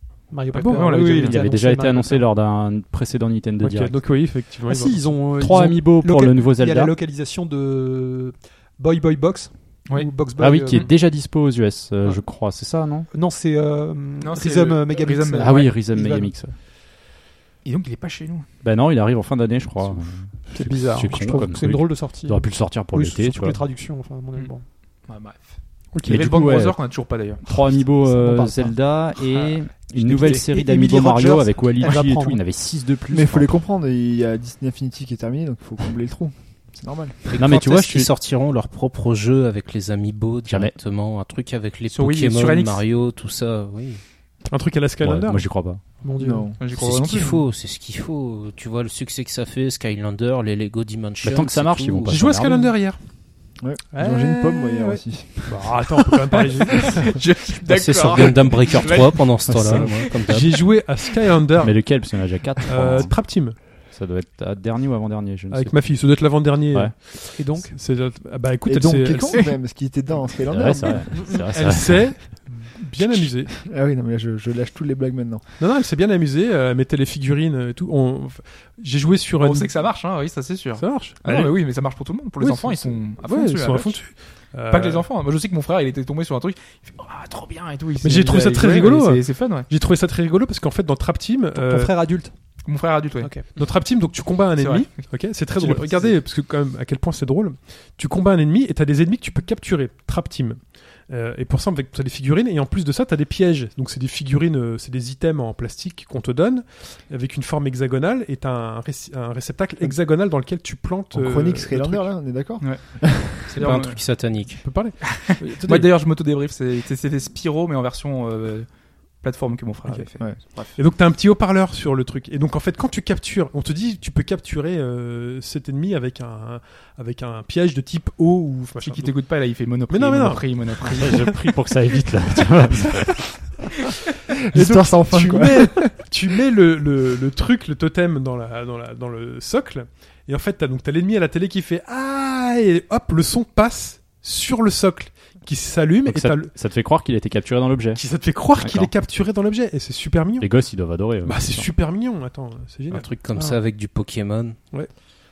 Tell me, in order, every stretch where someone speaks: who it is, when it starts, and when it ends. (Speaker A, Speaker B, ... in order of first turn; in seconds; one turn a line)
Speaker A: 0.3-2.3
Speaker B: 0.5-1.5
Speaker C: 0.6-1.4
Speaker D: 1.0-4.0
Speaker C: 3.6-5.3
Speaker A: 4.6-11.1
Speaker D: 5.3-7.0
Speaker D: 10.4-13.1
Speaker A: 12.0-12.3
Speaker A: 13.1-16.3
Speaker B: 14.2-15.6
Speaker D: 15.4-16.6
Speaker B: 17.6-18.5
Speaker D: 18.6-23.6
Speaker A: 20.5-24.7
Speaker B: 24.4-27.4
Speaker C: 25.9-26.2
Speaker D: 26.0-26.9
Speaker D: 27.4-33.7
Speaker A: 28.0-28.7
Speaker B: 29.3-29.6
Speaker A: 29.9-32.5
Speaker E: 33.1-37.2
Speaker F: 37.3-44.0
Speaker D: 37.4-38.1
Speaker D: 40.4-40.8
Speaker B: 41.9-42.9
Speaker C: 44.4-45.5
Speaker D: 45.0-45.8
Speaker A: 46.0-46.5
Speaker E: 46.2-46.6
Speaker B: 46.6-47.5
Speaker F: 46.7-52.2
Speaker D: 51.2-52.7
Speaker C: 52.0-53.1
Speaker E: 53.6-56.0
Speaker A: 53.9-55.0
Speaker C: 55.4-57.3
Speaker B: 56.4-60.4
Speaker F: 57.6-60.7
Speaker D: 59.5-60.1
Speaker C: 60.0-63.8
Speaker D: 61.6-66.0
Speaker C: 65.5-69.5
Speaker D: 66.7-67.0
Speaker A: 67.3-67.8
Speaker E: 68.6-71.3
Speaker C: 70.1-73.6
Speaker D: 70.5-72.2
Speaker E: 73.6-75.6
Speaker C: 75.6-79.9
Speaker B: 79.4-89.7
Speaker C: 80.8-85.1
Speaker C: 88.0-92.0
Speaker A: 91.5-92.6
Speaker B: 92.6-93.6
Speaker A: 93.2-93.6
Speaker C: 93.5-112.2
Speaker B: 94.6-95.4
Speaker A: 95.5-96.2
Speaker E: 111.1-113.6
Speaker B: 112.6-114.6
Speaker F: 113.5-114.8
Speaker C: 114.5-116.0
Speaker B: 115.4-120.8
Speaker C: 119.9-131.4
Speaker B: 128.8-131.2
Speaker D: 131.0-133.3
Speaker E: 134.5-136.1
Speaker C: 134.5-146.6
Speaker D: 146.1-148.9
Speaker C: 147.9-150.6
Speaker D: 150.4-151.7
Speaker C: 151.2-153.1
Speaker F: 152.9-154.6
Speaker A: 153.3-153.6